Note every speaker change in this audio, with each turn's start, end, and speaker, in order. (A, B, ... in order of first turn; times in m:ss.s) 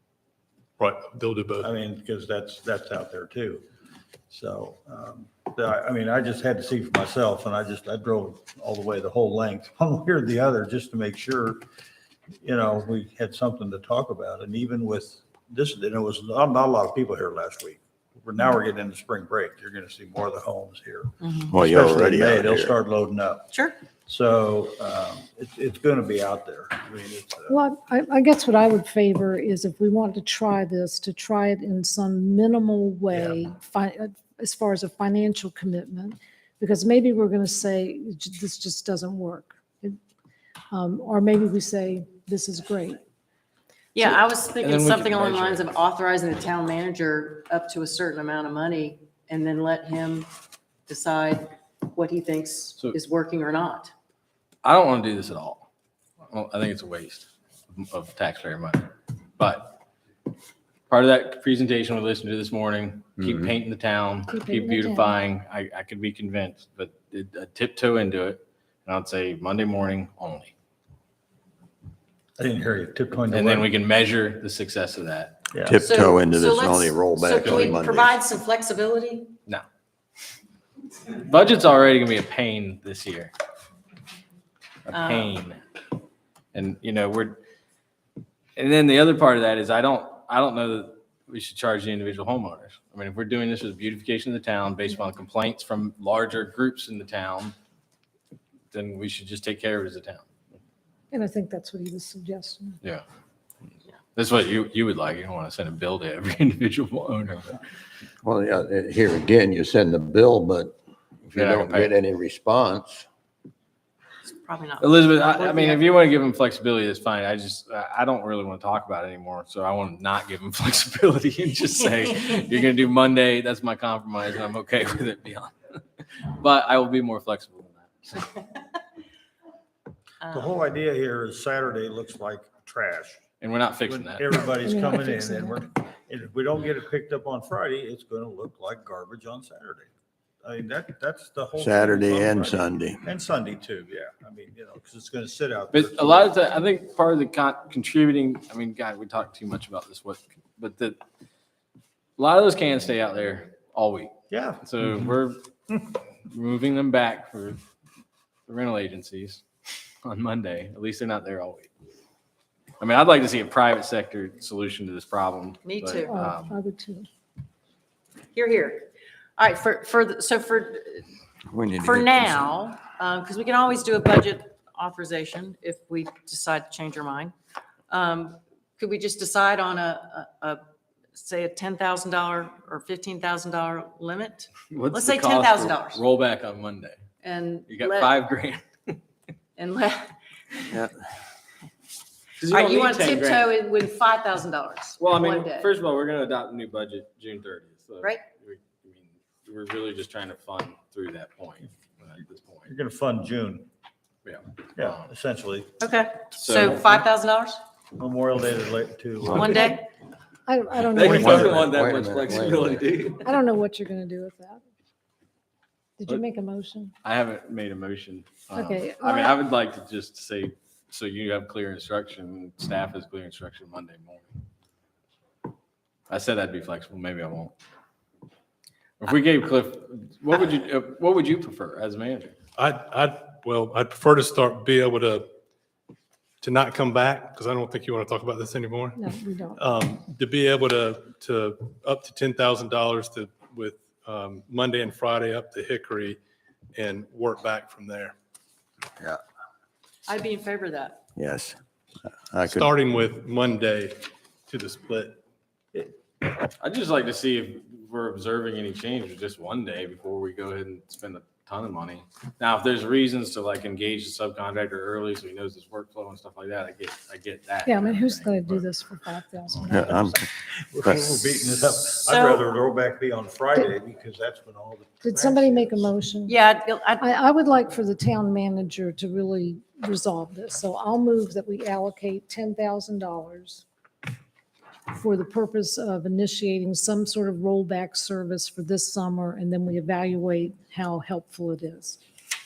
0:00.8-0:01.7 A
0:01.6-0:03.6 B
0:04.3-0:11.6 B
0:12.4-0:23.5 B
0:21.2-0:21.5 C
0:21.5-0:22.7 D
0:24.0-0:27.6 B
0:27.5-0:40.0 E
0:33.1-0:33.4 B
0:40.7-0:43.0 E
0:43.9-0:50.3 C
0:44.0-0:45.7 F
0:50.9-0:53.9 C
0:54.6-0:55.6 F
0:56.3-0:59.8 F
1:00.9-1:10.5 F
1:04.3-1:05.2 E
1:12.4-1:13.7 B
1:13.3-1:15.4 F
1:15.5-1:15.8 B
1:15.6-1:18.1 D
1:15.8-1:19.3 C
1:21.1-1:23.3 F
1:24.9-1:25.6 F
1:24.9-1:25.4 C
1:26.5-1:27.4 F
1:28.6-1:37.5 F
1:38.7-1:40.2 F
1:41.1-1:42.8 E
1:44.2-1:47.6 F
1:48.2-1:53.0 D
1:51.3-1:51.9 F
1:54.2-1:55.8 C
1:54.8-2:05.5 F
2:06.2-2:08.3 F
2:10.2-2:10.6 C
2:10.3-2:13.2 B
2:13.4-2:14.2 F
2:13.8-2:19.9 B
2:14.5-2:15.6 E
2:20.4-2:26.3 B
2:21.6-2:23.0 D
2:25.7-2:31.0 F
2:32.2-2:35.4 F
2:34.3-2:34.6 B
2:36.3-2:37.6 F
2:38.5-2:39.4 F
2:40.0-2:41.7 F
2:42.8-2:46.6 F
2:45.6-2:46.1 C
2:46.0-2:47.1 E
2:48.3-2:51.1 C
2:51.5-2:52.5 D
2:51.8-2:57.3 C
2:57.9-3:00.6 C
3:01.1-3:06.0 C
3:04.7-3:07.0 F
3:07.2-3:08.2 C
3:07.7-3:09.0 F
3:09.6-3:10.7 C
3:12.4-3:13.5 F
3:12.5-3:15.7 C
3:15.0-3:22.7 F
3:22.6-3:23.7 B
3:24.2-3:25.0 F
3:24.8-3:25.7 B
3:25.8-3:27.6 C
3:26.3-3:27.0 F
3:28.0-3:29.8 B
3:29.3-3:29.8 C
3:30.5-3:31.7 E
3:30.8-3:33.4 F
3:31.0-3:33.0 D
3:33.1-3:34.6 E
3:36.0-3:36.9 E
3:37.0-3:44.3 F
3:38.5-3:39.3 E
3:46.1-3:47.5 F
3:49.0-3:52.3 F
3:52.6-3:55.3 A
3:56.4-4:06.2 A
3:59.0-3:59.7 E
4:06.8-4:08.1 A
4:10.1-4:11.0 C
4:11.2-4:11.6 D
4:12.3-4:12.7 D
4:12.4-4:15.2 A
4:16.6-4:28.7 F
4:27.6-4:30.2 E
4:29.7-4:30.2 D
4:30.7-4:35.9 B
4:30.8-4:31.2 D
4:32.0-4:32.4 C
4:35.0-4:36.4 E
4:36.2-4:37.1 C
4:37.0-4:43.6 E
4:44.9-4:52.0 E